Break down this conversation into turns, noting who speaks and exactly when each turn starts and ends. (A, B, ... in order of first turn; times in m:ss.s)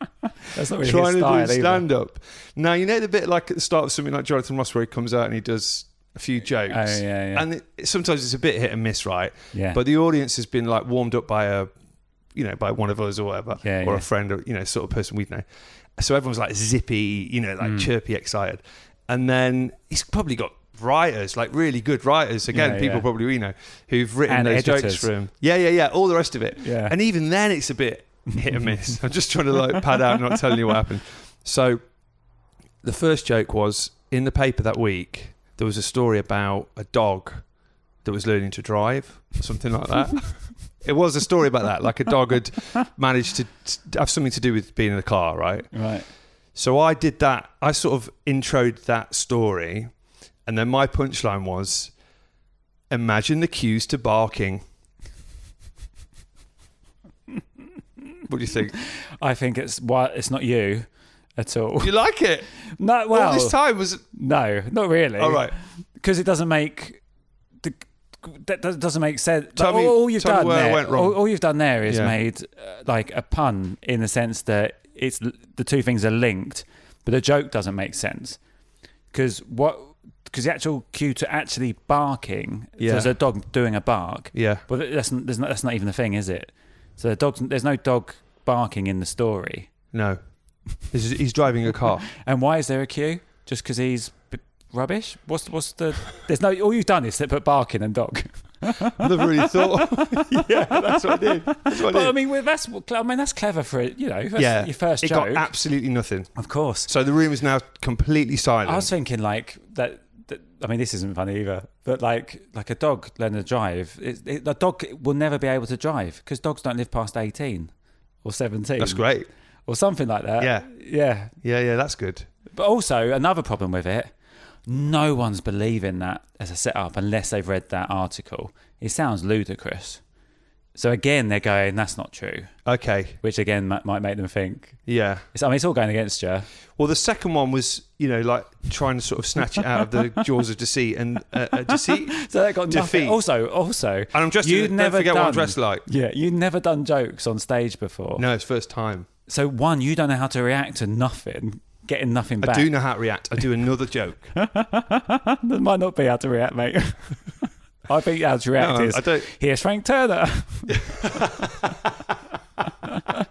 0:00.4-0:01.8 A
0:00.8-0:11.7 B
0:06.7-0:07.5 A
0:09.5-0:09.8 A
0:12.3-0:15.5 B
0:13.6-0:14.1 A
0:16.0-0:31.8 B
0:17.6-0:17.9 A
0:22.5-0:23.1 A
0:24.3-0:25.1 A
0:26.6-0:27.0 A
0:32.8-0:37.5 B
0:38.0-0:45.8 B
0:45.7-0:46.1 A
0:46.5-0:49.9 B
0:50.5-0:51.9 B
0:52.9-0:54.6 B
0:58.3-0:58.8 B
0:59.2-1:00.9 A
1:01.4-1:01.9 A
1:01.8-1:02.5 B
1:02.7-1:03.6 A
1:03.1-1:04.0 B
1:04.1-1:07.0 A
1:05.2-1:05.6 B
1:07.6-1:18.4 A
1:09.6-1:11.2 B
1:11.9-1:12.2 B
1:19.1-1:29.7 A
1:22.8-1:23.1 B
1:24.3-1:24.6 B
1:29.9-1:30.2 B
1:30.7-1:32.1 B
1:32.2-1:45.5 A
1:39.0-1:42.1 B
1:44.4-1:48.9 B
1:46.4-1:46.9 A
1:48.7-1:57.7 A
1:58.2-1:59.0 A
1:58.8-1:59.3 B
1:59.7-2:01.3 A
2:00.4-2:00.7 B
2:01.4-2:02.3 B
2:02.5-2:04.1 A
2:04.7-2:10.0 A
2:10.8-2:12.5 A
2:12.7-2:13.2 B
2:13.2-2:14.8 A
2:14.9-2:15.3 B
2:15.3-2:16.5 A
2:16.8-2:23.2 B
2:21.7-2:28.2 A
2:24.1-2:25.9 B
2:28.2-2:29.1 B
2:29.3-2:32.8 A
2:32.4-2:34.4 B
2:34.4-2:41.2 A
2:38.6-2:39.3 B
2:40.8-2:41.7 B